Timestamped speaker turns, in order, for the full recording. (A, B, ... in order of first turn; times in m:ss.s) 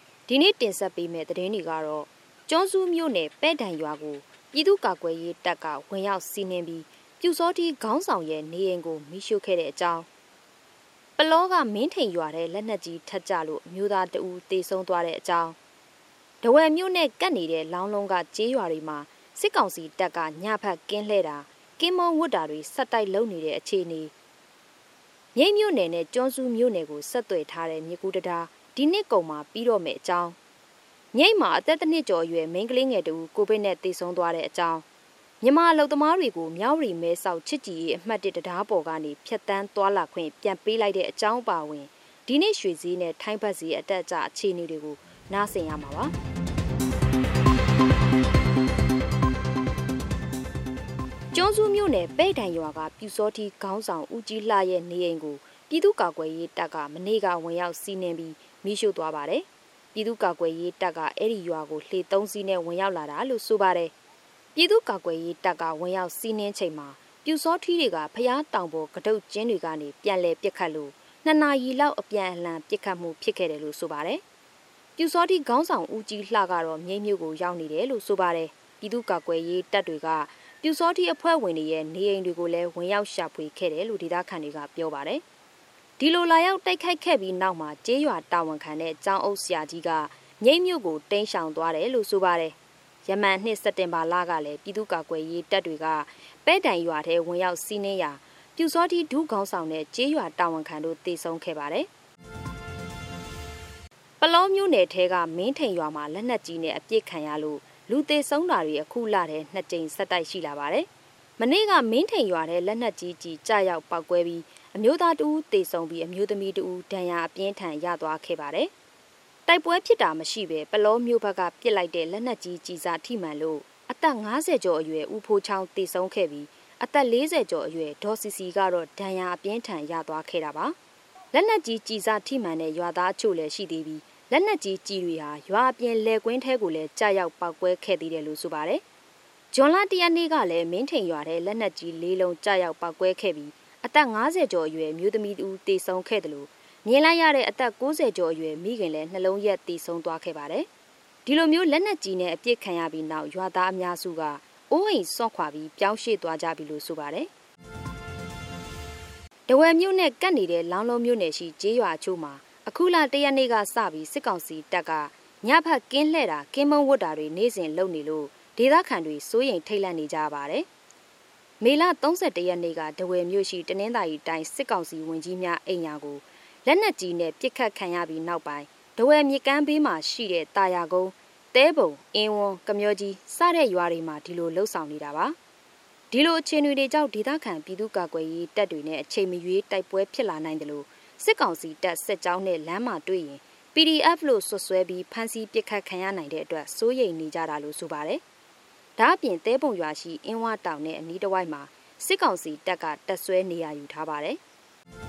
0:00.3-0:10.1 A
0:11.2-0:15.6 A
0:16.4-0:24.1 A
0:25.3-0:30.4 A
0:31.1-0:34.8 A
0:35.4-0:46.1 A
0:51.3-1:03.9 A
1:04.5-1:14.2 A
1:15.0-1:25.2 A
1:26.0-1:41.9 A
1:44.2-1:58.7 A
1:59.4-2:10.8 A
2:11.3-2:18.8 A
2:19.5-2:30.7 A
2:31.2-2:37.3 A
2:39.5-2:50.7 A
2:51.6-3:05.4 A
3:06.1-3:18.2 A
3:19.0-3:24.4 A